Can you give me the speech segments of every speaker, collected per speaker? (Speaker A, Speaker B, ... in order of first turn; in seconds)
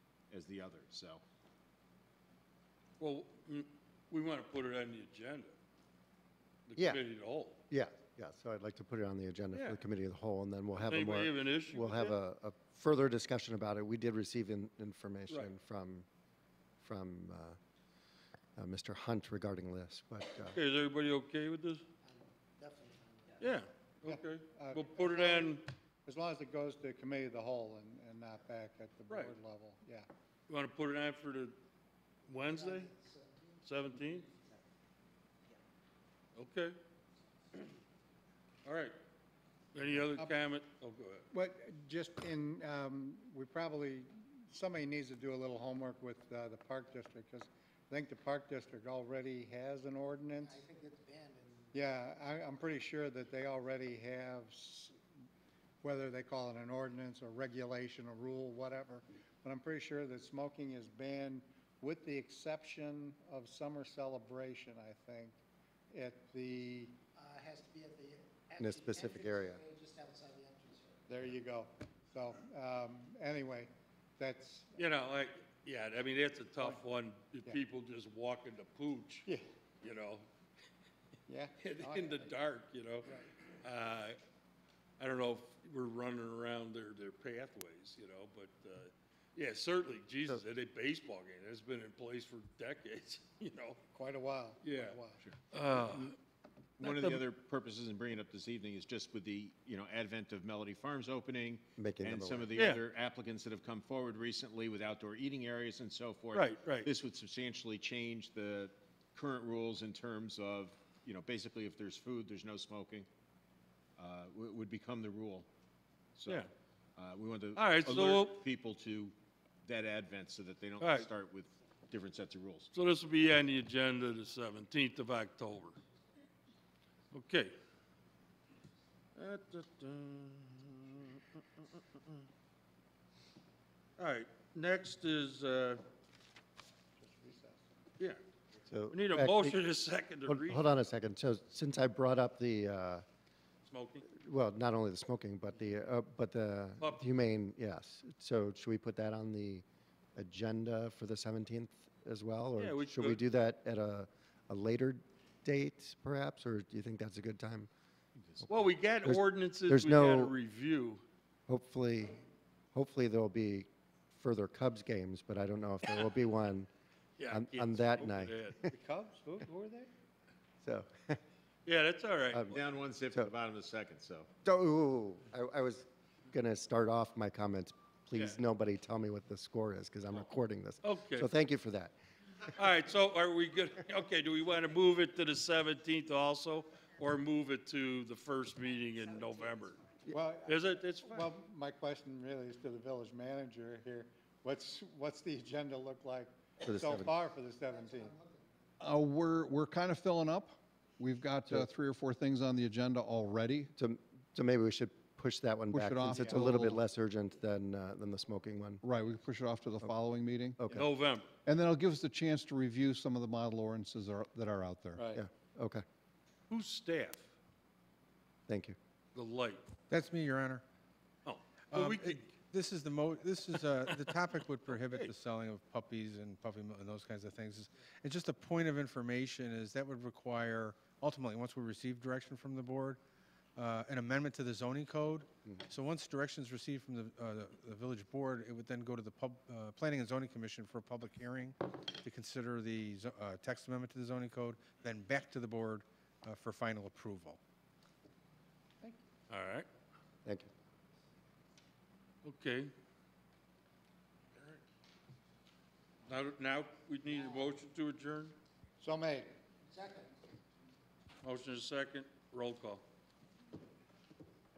Speaker A: 0.3-1.2, 96.8-113.1, 114.0-115.5, 116.2-122.7, 158.2-158.5, 172.5-174.3
Speaker B: 3.0-5.5, 6.7-7.6, 9.5-9.8, 10.8-12.2, 20.5-21.8, 23.4-25.7, 29.1-29.4, 30.5-31.6, 32.3-32.9, 33.6-34.3, 36.4-36.8, 38.6-39.0, 39.7-41.2, 74.7-80.3, 81.6-84.2, 85.0-93.8, 94.6-96.2, 96.8-97.2, 102.5-102.8, 106.3-106.9, 117.5-118.4, 120.8-121.1, 122.7-125.8, 127.1-127.5, 129.2-132.2, 134.0-135.8, 138.9-140.7, 143.6-144.1, 146.8-147.2, 152.6-153.2, 158.5-161.0, 167.2-168.7, 171.7-172.5, 180.8-181.3, 182.5-189.9, 190.4-191.3, 210.7-211.3, 214.9-215.2, 216.5-217.3, 219.1-219.6, 221.2-222.4, 224.8-225.1, 249.3-249.7, 252.2-252.7, 256.1-258.4, 261.2-262.8
Speaker C: 7.7-16.1, 16.8-17.6, 18.6-20.6, 68.6-69.6, 101.8-102.5, 138.7-139.6, 140.2-143.0, 144.1-149.6, 150.2-157.7, 159.0-160.3, 161.5-162.2, 162.7-166.7, 167.3-168.7, 170.6-171.2, 172.3-172.6, 174.4-181.9, 196.6-197.1, 203.8-208.8, 210.6-210.9, 215.1-215.8, 218.5-218.8
Speaker D: 22.0-23.5, 32.5-33.6, 50.4-51.7, 67.1-71.1, 197.6-198.4, 259.6-260.2
Speaker E: 24.1-30.1, 41.3-50.6, 51.7-54.9, 55.8-65.4, 65.9-67.0, 71.1-74.8, 81.3-82.3, 93.9-95.2, 137.0-137.7, 168.7-169.8, 190.1-198.1, 258.8-259.3
Speaker F: 198.8-203.7, 205.7-206.8, 208.8-210.8, 211.4-215.1
Speaker G: 219.9-220.6, 221.7-233.0, 233.6-247.4